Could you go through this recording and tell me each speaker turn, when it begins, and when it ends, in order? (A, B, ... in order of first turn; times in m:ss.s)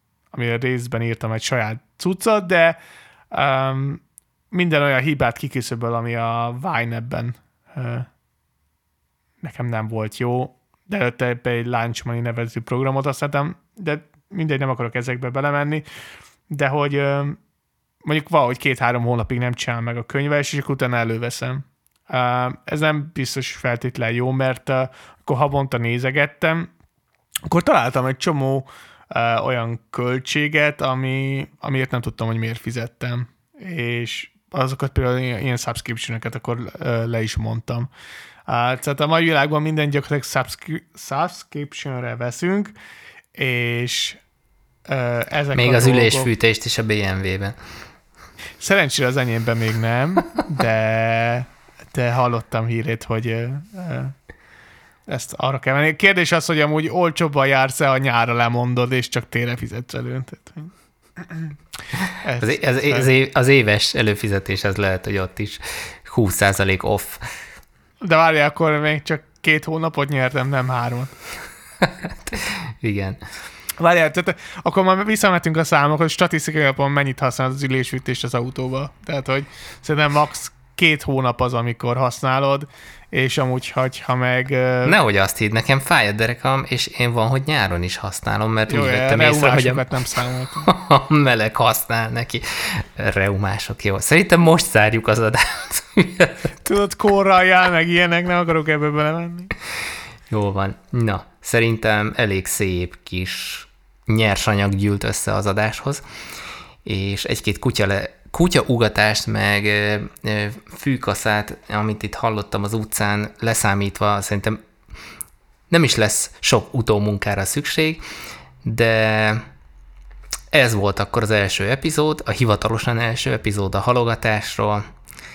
0:00.3-0:02.8 A
0:03.3-0:08.1 A
0:09.4-0:15.8 A
0:16.5-0:17.4 A
0:18.0-0:26.7 A
0:27.5-0:37.9 A
0:38.4-0:42.7 A
0:43.3-0:44.2 A
0:44.8-0:46.3 A
0:45.5-0:47.6 B
0:48.6-0:54.1 A
0:55.1-1:01.5 A
1:02.2-1:03.1 A
1:02.4-1:07.2 B
1:08.0-1:11.1 A
1:11.8-1:13.2 B
1:13.8-1:25.0 A
1:24.8-1:29.8 B
1:28.7-1:30.7 A
1:30.6-1:36.5 B
1:36.6-1:39.5 A
1:40.3-1:46.0 B
1:46.8-1:54.6 B
1:55.7-1:58.0 B
1:58.6-1:59.4 B
2:00.5-2:04.8 B